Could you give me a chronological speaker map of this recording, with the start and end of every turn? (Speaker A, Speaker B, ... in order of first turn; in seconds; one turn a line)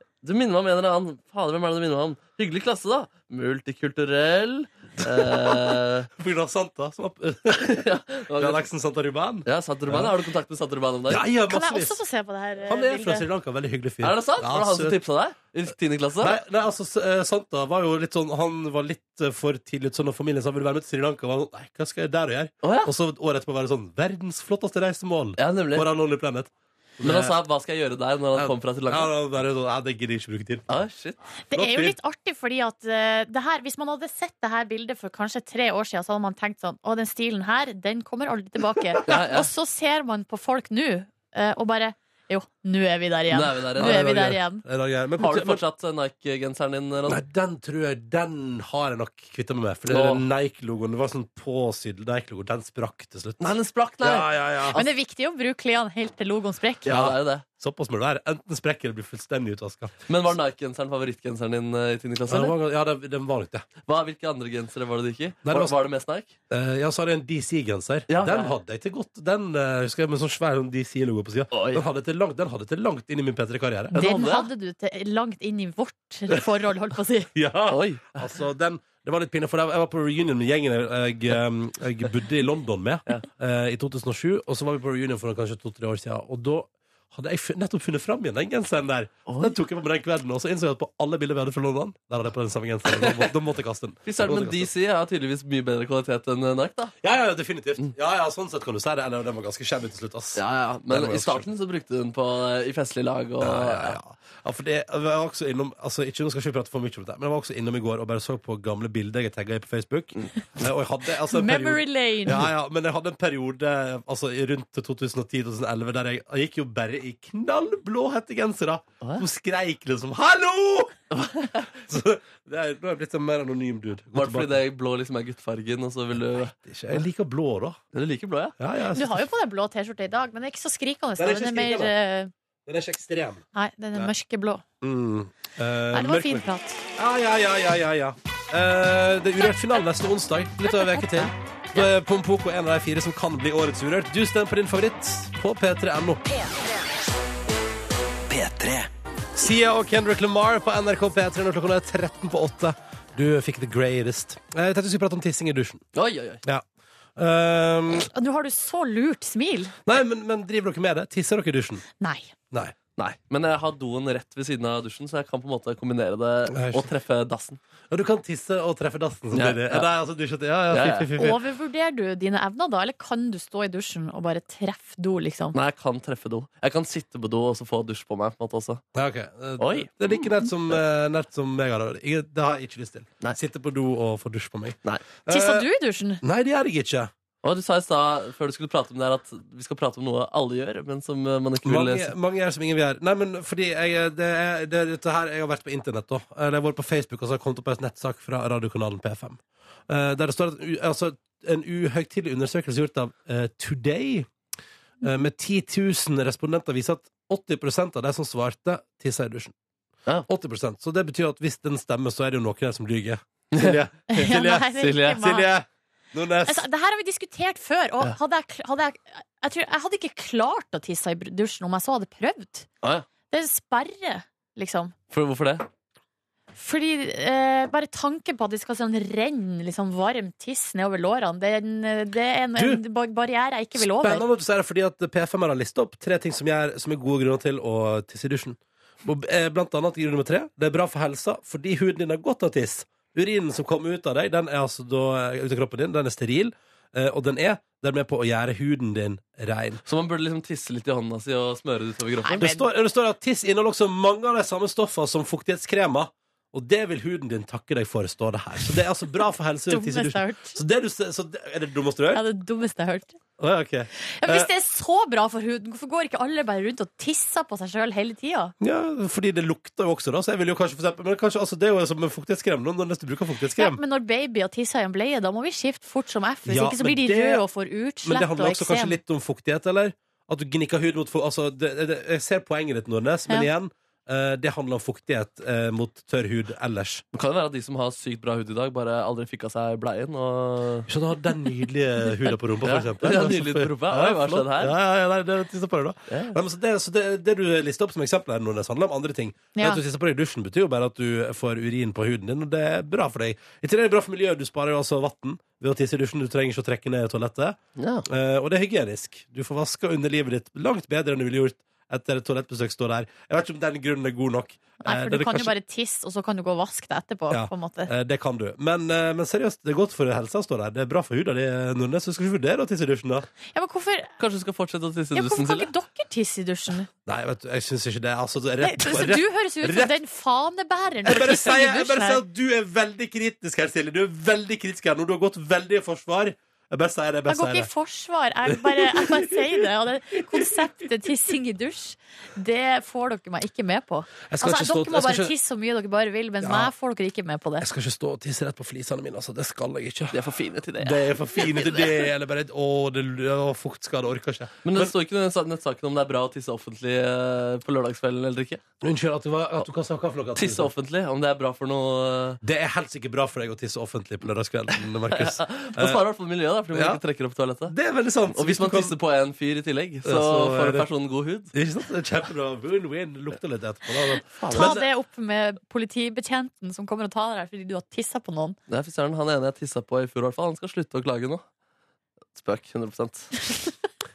Speaker A: 0.2-6.1
Speaker B: 5.0-10.1
Speaker A: 7.5-8.6
Speaker A: 9.5-11.2
Speaker B: 11.1-12.0
Speaker C: 11.5-13.2
Speaker B: 12.7-15.0
Speaker A: 14.0-16.4
Speaker B: 16.2-27.4
Speaker A: 22.6-22.9
Speaker A: 25.4-25.9
Speaker A: 27.0-29.1
Speaker B: 28.4-30.7
Speaker A: 30.7-31.2
Speaker C: 31.5-44.6
Speaker B: 31.5-31.9
Speaker A: 39.1-39.5
Speaker A: 43.3-44.3
Speaker B: 43.8-45.6
Speaker A: 45.2-47.2
Speaker B: 47.1-54.9
Speaker A: 49.9-50.3
Speaker A: 53.4-54.3
Speaker C: 54.7-56.9
Speaker A: 56.9-57.4
Speaker B: 56.9-60.0
Speaker A: 60.1-62.6
Speaker B: 62.3-63.7
Speaker A: 63.9-66.3
Speaker B: 65.5-65.8
Speaker B: 66.5-74.0
Speaker A: 68.1-68.5
Speaker A: 71.5-71.8
Speaker A: 73.9-74.5
Speaker C: 73.9-77.3
Speaker B: 77.3-94.7
Speaker A: 77.7-78.3
Speaker A: 89.3-89.5
Speaker A: 92.9-93.3
Speaker A: 94.1-96.9
Speaker B: 97.0-101.5
Speaker A: 100.4-104.0
Speaker B: 103.4-121.0
Speaker C: 111.3-112.5
Speaker A: 121.1-121.7
Speaker B: 121.7-124.5
Speaker A: 124.1-127.0
Speaker B: 126.6-127.8
Speaker A: 127.9-128.6
Speaker B: 128.6-129.2
Speaker C: 128.9-132.3
Speaker B: 131.2-131.9
Speaker B: 132.7-134.1
Speaker C: 133.6-134.6
Speaker B: 134.8-136.5
Speaker C: 135.9-136.8
Speaker B: 137.0-146.2
Speaker C: 140.8-141.3
Speaker A: 148.4-148.9
Speaker B: 149.3-155.8
Speaker A: 155.9-156.4
Speaker B: 157.2-158.1
Speaker C: 158.1-159.8
Speaker B: 159.8-161.8
Speaker C: 162.0-162.3
Speaker A: 163.0-167.6
Speaker B: 166.5-166.9
Speaker B: 167.9-171.4
Speaker A: 169.3-169.9
Speaker A: 170.7-171.1
Speaker C: 171.2-175.6
Speaker A: 175.5-178.8
Speaker B: 178.9-185.7
Speaker A: 179.6-180.8
Speaker C: 185.3-186.2
Speaker B: 186.2-187.1
Speaker A: 187.4-192.1
Speaker B: 191.6-204.3
Speaker B: 205.0-209.5
Speaker B: 210.3-216.7
Speaker A: 213.5-213.8
Speaker C: 214.1-215.5
Speaker A: 214.8-215.2
Speaker C: 216.4-222.7
Speaker C: 223.3-224.9
Speaker A: 225.1-225.7
Speaker C: 226.6-234.2
Speaker B: 232.6-232.8
Speaker B: 233.8-249.8
Speaker A: 249.9-252.4
Speaker C: 252.2-252.7
Speaker B: 252.4-262.2
Speaker C: 259.7-260.6
Speaker C: 262.1-263.2
Speaker B: 263.4-264.5
Speaker C: 264.0-268.5
Speaker B: 268.6-273.8
Speaker C: 273.6-279.0
Speaker B: 276.5-277.4
Speaker B: 278.0-287.0
Speaker A: 287.1-290.9
Speaker B: 290.9-315.5
Speaker A: 292.6-294.8
Speaker A: 296.1-296.4
Speaker C: 299.6-299.8
Speaker A: 307.8-308.1
Speaker C: 314.8-317.9
Speaker B: 317.3-323.3
Speaker C: 323.5-324.1
Speaker A: 324.2-325.7
Speaker C: 325.1-326.9
Speaker B: 327.1-329.9
Speaker C: 328.6-332.2
Speaker B: 331.1-337.7
Speaker C: 337.3-347.7
Speaker B: 338.5-339.6
Speaker B: 344.3-345.3
Speaker B: 346.4-346.7
Speaker B: 347.6-350.2
Speaker A: 350.1-351.9
Speaker B: 350.8-354.9
Speaker A: 354.6-358.6
Speaker B: 358.8-360.7
Speaker A: 360.4-362.4
Speaker B: 362.4-366.0
Speaker A: 365.1-367.8
Speaker B: 366.7-367.0
Speaker B: 367.7-368.9
Speaker A: 368.3-371.5
Speaker B: 370.1-370.9
Speaker B: 371.5-374.9
Speaker A: 374.4-374.8
Speaker C: 374.5-378.6
Speaker A: 378.7-381.4
Speaker A: 382.3-383.4